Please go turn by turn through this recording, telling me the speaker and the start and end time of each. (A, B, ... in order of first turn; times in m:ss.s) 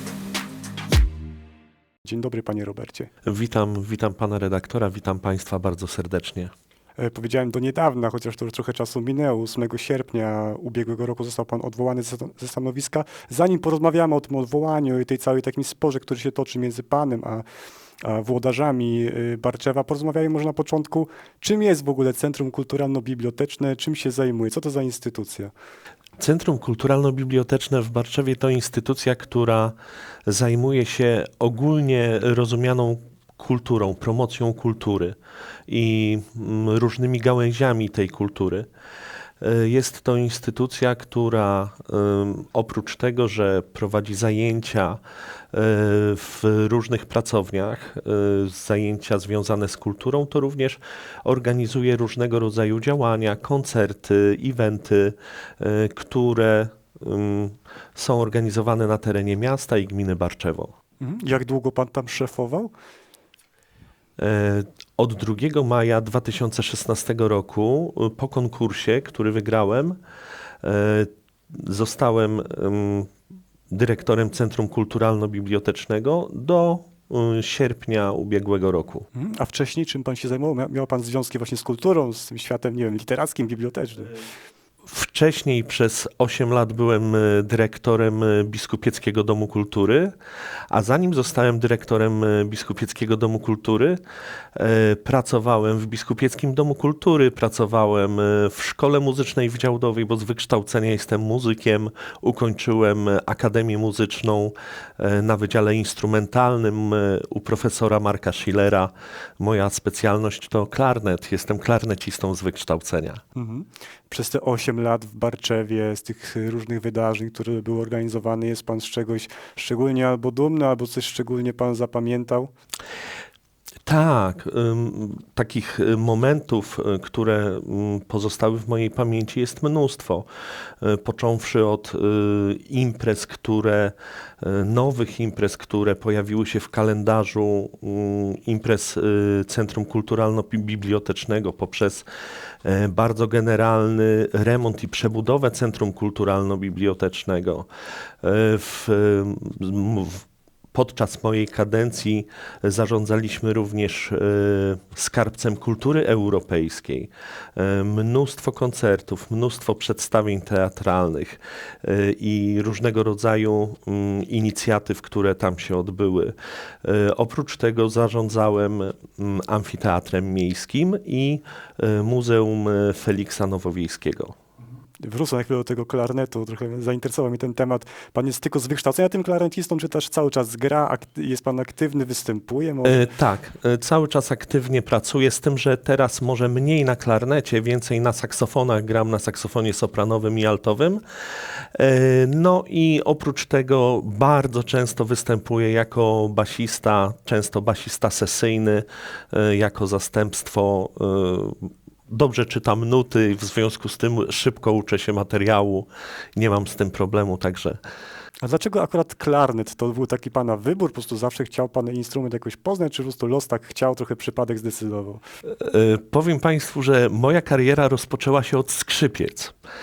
0:02.0-0:03.1 A
0:03.2-0:06.5 B
0:07.0-0:17.4 A
0:18.0-0:25.5 A
0:26.2-0:29.8 B
0:30.3-0:35.2 B
0:35.7-0:38.7 B
0:39.4-0:45.0 B
0:45.5-1:00.7 B
1:01.0-1:02.7 A
1:04.2-1:10.0 B
1:10.6-1:13.1 B
1:13.7-1:19.1 B
1:19.2-1:24.2 A
1:24.9-1:30.2 B
1:30.7-1:34.0 B
1:34.6-1:53.2 B
1:53.4-2:02.5 A
2:03.8-2:10.3 B
2:10.8-2:22.1 B
2:22.6-2:27.7 B
2:28.2-2:54.4 B
2:55.0-3:03.1 A
3:02.8-3:11.0 B
3:11.7-3:27.8 B
3:28.4-3:35.2 A
3:35.5-3:39.6 B